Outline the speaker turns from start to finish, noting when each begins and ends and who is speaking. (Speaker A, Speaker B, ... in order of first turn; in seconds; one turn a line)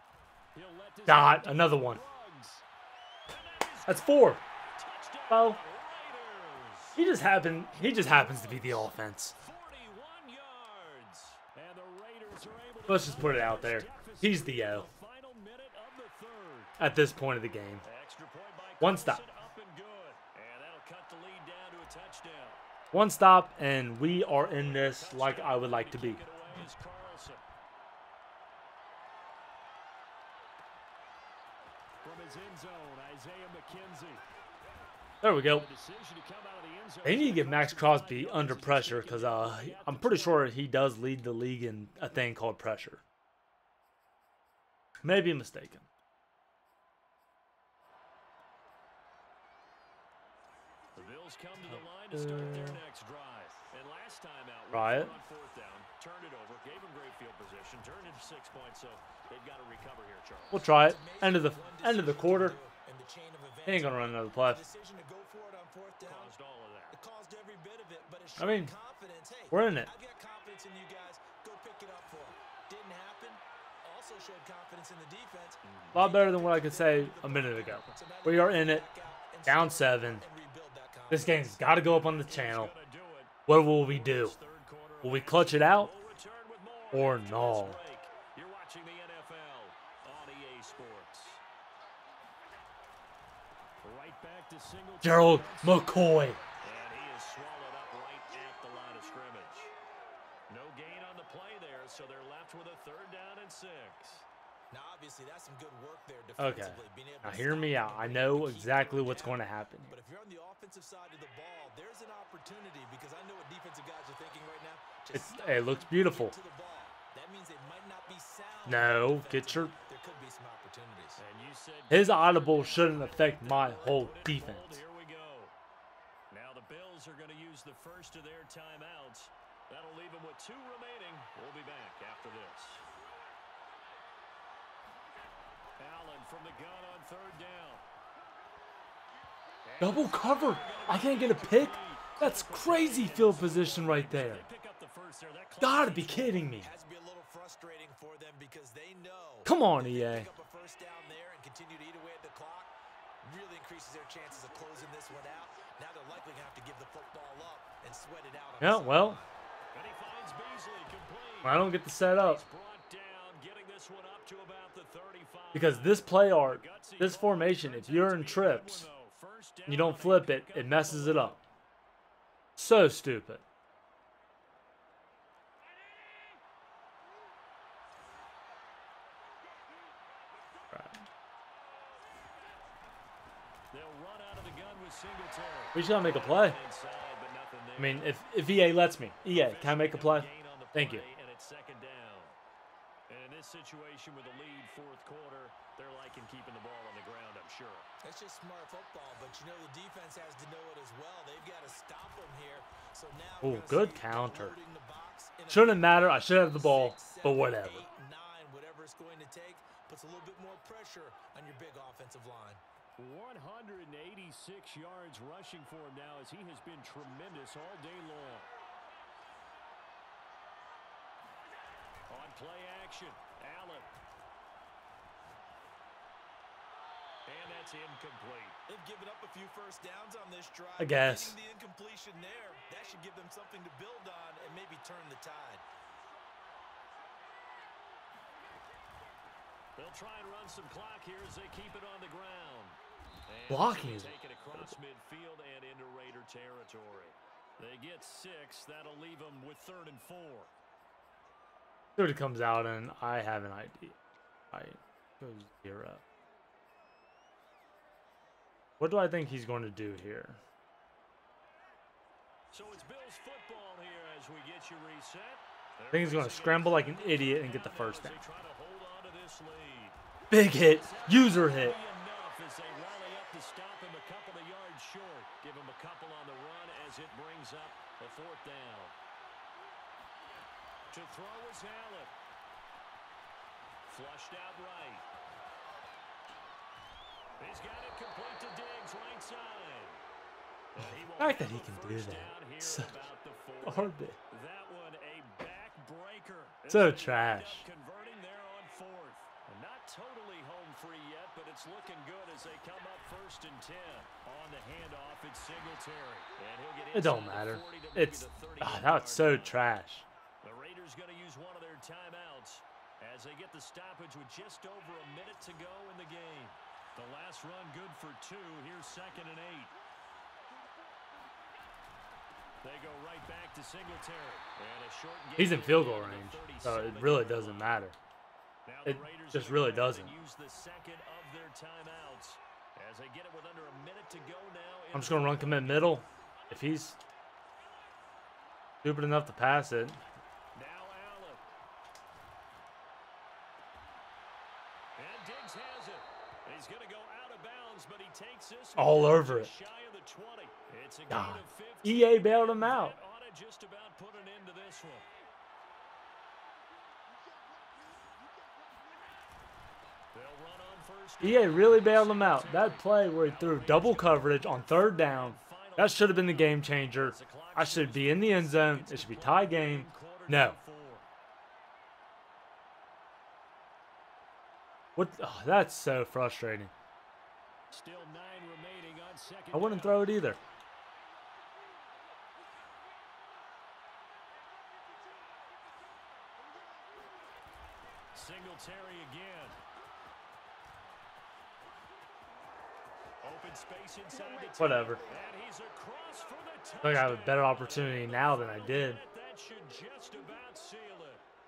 Speaker A: 0.5-2.6
Speaker B: 1.1-2.1
Speaker A: 3.3-7.0
Speaker B: 3.9-4.4
Speaker B: 5.3-5.6
Speaker B: 7.0-9.3
Speaker A: 7.7-16.8
Speaker B: 12.9-14.9
Speaker B: 16.8-17.8
Speaker A: 17.8-22.6
Speaker B: 18.8-19.2
Speaker B: 22.9-26.2
Speaker A: 24.5-27.4
Speaker A: 32.0-34.2
Speaker B: 35.2-35.7
Speaker A: 35.3-40.5
Speaker B: 37.0-43.0
Speaker B: 45.0-45.9
Speaker A: 51.0-60.6
Speaker B: 51.7-52.8
Speaker B: 54.7-55.2
Speaker B: 60.5-62.6
Speaker C: 60.5-66.3
Speaker B: 63.7-64.6
Speaker A: 66.0-67.0
Speaker C: 66.9-81.7
Speaker B: 68.4-68.7
Speaker B: 69.5-69.9
Speaker A: 75.6-76.0
Speaker B: 75.9-78.9
Speaker B: 79.5-80.2
Speaker B: 81.1-82.7
Speaker A: 81.8-91.4
Speaker B: 83.5-84.4
Speaker B: 85.0-85.9
Speaker B: 86.9-87.8
Speaker A: 93.8-99.7
Speaker B: 95.0-96.4
Speaker A: 100.5-104.3
Speaker C: 104.7-121.2
Speaker B: 106.4-110.0
Speaker B: 115.1-116.3
Speaker B: 118.7-119.7
Speaker A: 121.2-125.5
Speaker B: 121.9-124.8
Speaker A: 126.3-132.8
Speaker A: 135.8-137.8
Speaker A: 139.7-146.4
Speaker B: 139.8-144.5
Speaker B: 145.6-146.7
Speaker C: 146.5-159.3
Speaker B: 149.4-150.3
Speaker B: 158.6-159.2
Speaker A: 159.7-171.4
Speaker B: 161.4-162.4
Speaker B: 165.5-168.9
Speaker B: 169.7-171.4
Speaker B: 172.6-173.4
Speaker B: 180.7-181.0
Speaker A: 183.7-188.2
Speaker B: 185.7-186.6
Speaker B: 187.8-191.1
Speaker A: 189.2-192.4
Speaker A: 193.1-197.9
Speaker C: 198.0-212.6
Speaker B: 203.4-204.6
Speaker B: 205.5-207.9
Speaker A: 213.0-218.5
Speaker A: 222.1-223.9
Speaker A: 227.3-228.6
Speaker C: 228.7-235.6
Speaker B: 230.8-231.4
Speaker A: 239.8-250.5
Speaker B: 243.5-244.8
Speaker B: 252.0-254.0
Speaker B: 254.5-256.0
Speaker B: 258.8-260.4
Speaker A: 262.5-278.9
Speaker B: 265.9-268.2
Speaker B: 270.3-271.8
Speaker A: 280.9-282.1
Speaker A: 283.9-285.1
Speaker A: 287.4-290.0
Speaker A: 290.7-309.6
Speaker B: 290.8-293.0
Speaker B: 293.6-294.2
Speaker B: 296.7-297.7
Speaker B: 306.9-310.1
Speaker A: 310.4-319.7
Speaker A: 322.6-327.8
Speaker B: 325.4-328.0
Speaker A: 328.7-336.0
Speaker B: 328.9-330.2
Speaker B: 334.9-337.0
Speaker B: 338.8-340.0
Speaker A: 340.5-341.5
Speaker A: 345.0-355.1
Speaker B: 348.8-349.5
Speaker B: 351.1-353.0
Speaker A: 360.1-371.1
Speaker B: 361.2-370.6
Speaker B: 375.0-376.7
Speaker A: 377.7-380.2
Speaker B: 379.5-380.4
Speaker A: 388.1-389.6
Speaker A: 393.2-401.2
Speaker C: 394.4-395.0
Speaker B: 394.6-395.0
Speaker B: 396.8-399.0